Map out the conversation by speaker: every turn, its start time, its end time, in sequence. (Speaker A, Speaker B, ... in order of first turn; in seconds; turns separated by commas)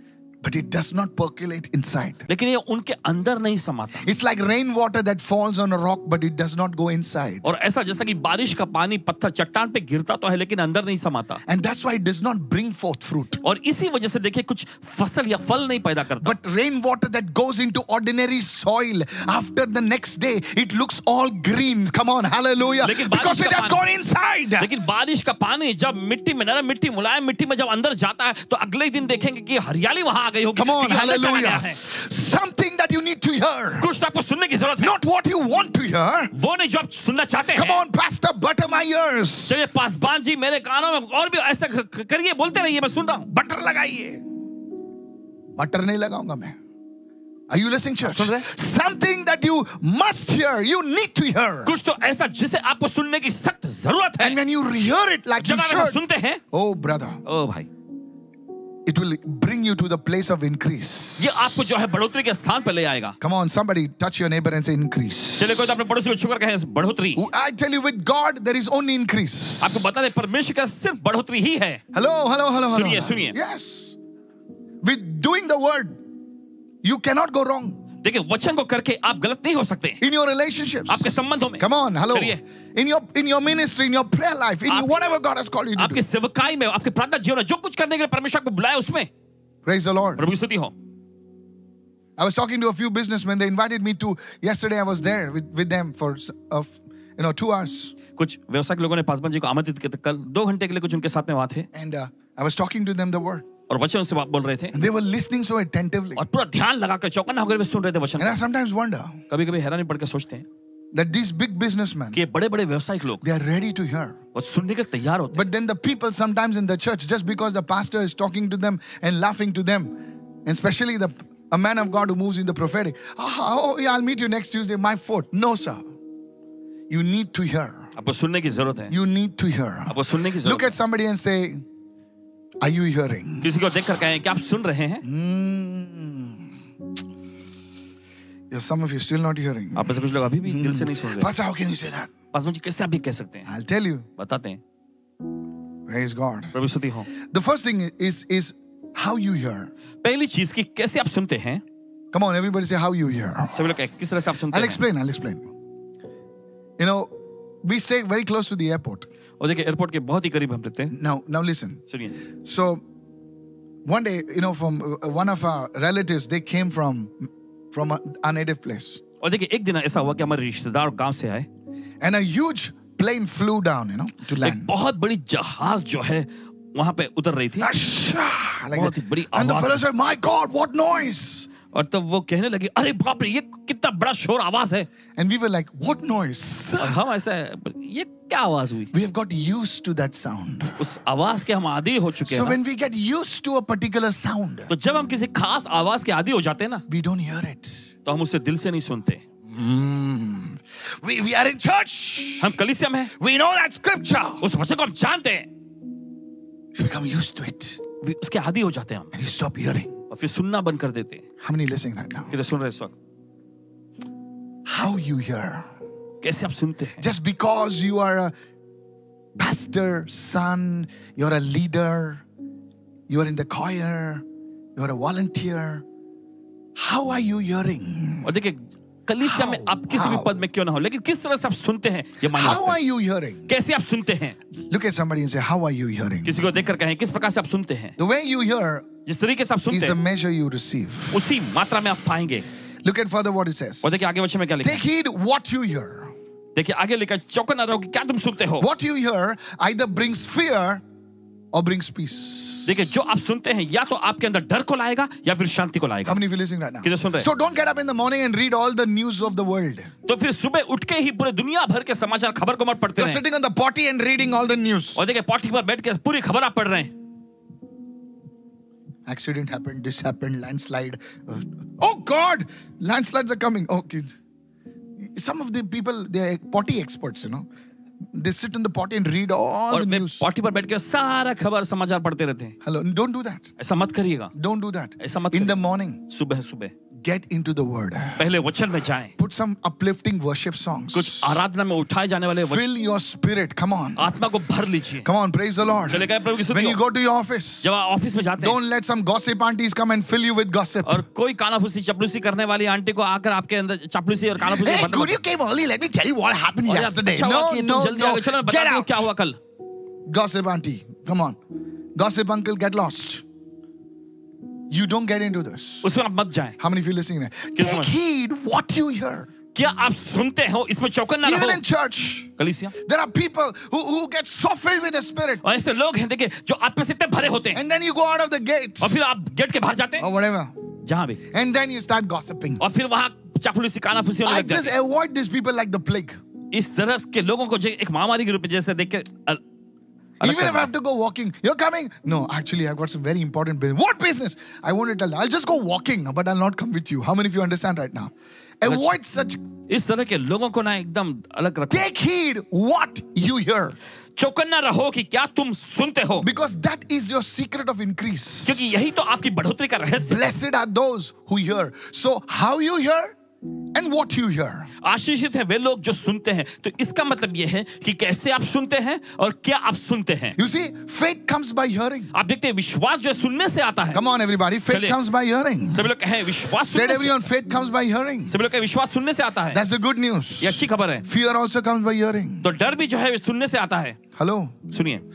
Speaker A: 0.4-2.3, Speaker B: 2.3-4.1, Speaker A: 4.0-7.4, Speaker B: 7.4-11.4, Speaker A: 11.5-13.4, Speaker B: 13.4-16.4, Speaker A: 16.2-24.7, Speaker B: 22.8-23.8, Speaker B: 24.6-31.8, Speaker A: 30.6-33.9, Speaker B: 33.8-34.9, Speaker A: 34.7-36.3, Speaker B: 36.3-37.8, Speaker A: 37.5-39.6, Speaker B: 39.5-43.3, Speaker A: 43.3-44.2, Speaker A: 45.5-46.6, Speaker A: 47.5-51.8, Speaker B: 48.0-48.5, Speaker B: 51.6-54.4, Speaker A: 54.2-56.0, Speaker B: 55.4-56.4, Speaker A: 56.5-57.2, Speaker B: 57.2-57.7, Speaker A: 58.9-61.5, Speaker B: 61.2-63.1, Speaker A: 63.2-65.7, Speaker B: 65.4-67.2, Speaker A: 67.2-69.9, Speaker B: 69.6-71.8, Speaker A: 71.9-74.0, Speaker B: 72.7-73.4, Speaker A: 74.8-76.0, Speaker A: 76.8-77.8, Speaker B: 78.0-80.0, Speaker A: 80.0-86.0, Speaker B: 80.9-82.4, Speaker B: 85.8-89.1, Speaker A: 89.6-90.2, Speaker B: 90.2-90.7, Speaker A: 92.2-97.9, Speaker B: 98.2-101.7, Speaker A: 101.7-103.5, Speaker B: 103.7-104.7, Speaker A: 104.7-106.2, Speaker B: 106.2-108.4, Speaker A: 108.2-109.2, Speaker B: 109.3-110.5, Speaker A: 110.9-112.2, Speaker B: 112.1-113.2, Speaker A: 113.2-114.2, Speaker B: 114.3-115.5, Speaker A: 115.3-125.8, Speaker A: 126.9-127.8, Speaker B: 128.0-128.9, Speaker A: 128.9-131.6, Speaker B: 129.9-130.8, Speaker A: 132.6-133.5, Speaker B: 133.4-135.0, Speaker A: 135.0-136.5, Speaker A: 138.5-142.1, Speaker B: 139.7-141.3, Speaker B: 142.3-143.5, Speaker A: 143.4-144.1, Speaker B: 144.2-144.6, Speaker A: 145.9-146.5, Speaker B: 146.5-147.1, Speaker A: 147.2-149.7, Speaker B: 150.0-151.6, Speaker A: 152.1-153.5, Speaker B: 153.5-154.8, Speaker A: 154.5-155.4, Speaker A: 156.8-157.1, Speaker A: 157.6-159.1, Speaker B: 159.4-160.9, Speaker A: 160.9-161.8, Speaker B: 161.9-162.2, Speaker A: 162.3-162.8, Speaker A: 163.8-169.0, Speaker B: 169.2-171.5, Speaker A: 172.0-174.7, Speaker B: 174.4-177.7, Speaker A: 177.6-181.5, Speaker B: 178.7-179.8, Speaker B: 181.7-184.9, Speaker A: 185.2-187.0, Speaker B: 186.8-188.9, Speaker A: 188.9-190.8, Speaker B: 190.8-192.6, Speaker A: 192.2-194.7, Speaker B: 194.7-196.8, Speaker A: 196.9-197.9, Speaker B: 198.0-199.2, Speaker A: 199.5-202.6, Speaker B: 202.4-203.1, Speaker A: 203.2-204.4, Speaker B: 204.4-205.5, Speaker A: 206.7-207.8, Speaker B: 208.0-209.1, Speaker A: 209.1-209.9, Speaker B: 210.1-211.2, Speaker A: 211.4-212.3, Speaker B: 212.3-212.9, Speaker A: 214.7-215.7, Speaker B: 216.2-217.0, Speaker A: 217.0-218.3, Speaker A: 219.4-222.2, Speaker A: 223.1-224.2, Speaker A: 224.8-225.8, Speaker A: 226.8-228.3, Speaker B: 228.2-232.8, Speaker A: 229.2-230.3, Speaker A: 232.3-233.5, Speaker B: 233.5-234.4, Speaker A: 234.6-236.4, Speaker B: 236.2-237.9, Speaker A: 238.0-238.9, Speaker B: 239.1-240.0, Speaker A: 239.7-241.2, Speaker B: 241.1-242.5, Speaker A: 242.8-244.0, Speaker B: 243.8-244.8, Speaker A: 244.6-246.1, Speaker B: 246.5-248.7, Speaker A: 248.6-250.8, Speaker A: 251.5-252.7, Speaker B: 252.7-256.2, Speaker A: 256.0-259.9, Speaker B: 256.8-257.3, Speaker B: 260.1-263.2, Speaker A: 263.0-265.0, Speaker B: 264.9-266.9, Speaker A: 269.1-274.2, Speaker A: 275.0-277.5, Speaker A: 278.1-280.3, Speaker B: 279.7-282.5, Speaker A: 282.6-283.5, Speaker B: 283.6-284.3, Speaker A: 284.3-286.0, Speaker B: 285.0-286.7, Speaker A: 287.0-288.3, Speaker B: 288.2-289.1, Speaker A: 289.2-291.4, Speaker B: 290.9-292.6, Speaker A: 292.3-294.1, Speaker B: 294.0-295.1, Speaker A: 295.0-297.7, Speaker B: 295.9-296.8, Speaker B: 297.6-298.6, Speaker A: 298.4-301.0, Speaker B: 300.9-305.1, Speaker A: 304.4-309.1, Speaker B: 306.6-309.4, Speaker A: 310.1-311.4, Speaker A: 311.9-313.2, Speaker A: 314.7-315.9, Speaker B: 315.8-316.6, Speaker A: 316.6-319.3, Speaker B: 317.6-317.9, Speaker B: 319.5-321.6, Speaker A: 321.2-325.4, Speaker B: 322.4-322.7, Speaker B: 325.4-327.6, Speaker A: 327.5-329.0, Speaker B: 328.8-330.1, Speaker A: 330.0-330.5, Speaker B: 330.8-331.2, Speaker A: 331.3-332.6, Speaker B: 332.6-334.7, Speaker A: 334.2-336.2, Speaker B: 336.5-339.4, Speaker B: 340.2-340.7, Speaker A: 340.2-349.4, Speaker B: 348.6-348.9, Speaker B: 349.7-351.9, Speaker A: 351.7-353.8, Speaker B: 354.2-356.2, Speaker A: 356.2-358.6, Speaker B: 358.4-360.2, Speaker A: 360.0-363.1, Speaker A: 363.7-364.7, Speaker B: 364.8-370.4, Speaker A: 370.4-372.1, Speaker B: 372.1-374.0, Speaker A: 373.9-375.9, Speaker B: 374.7-375.0, Speaker B: 375.7-377.2, Speaker A: 376.6-378.3, Speaker B: 378.3-379.6, Speaker A: 379.5-382.5, Speaker B: 380.4-381.1, Speaker B: 382.4-384.0, Speaker A: 384.1-384.6, Speaker B: 384.7-385.0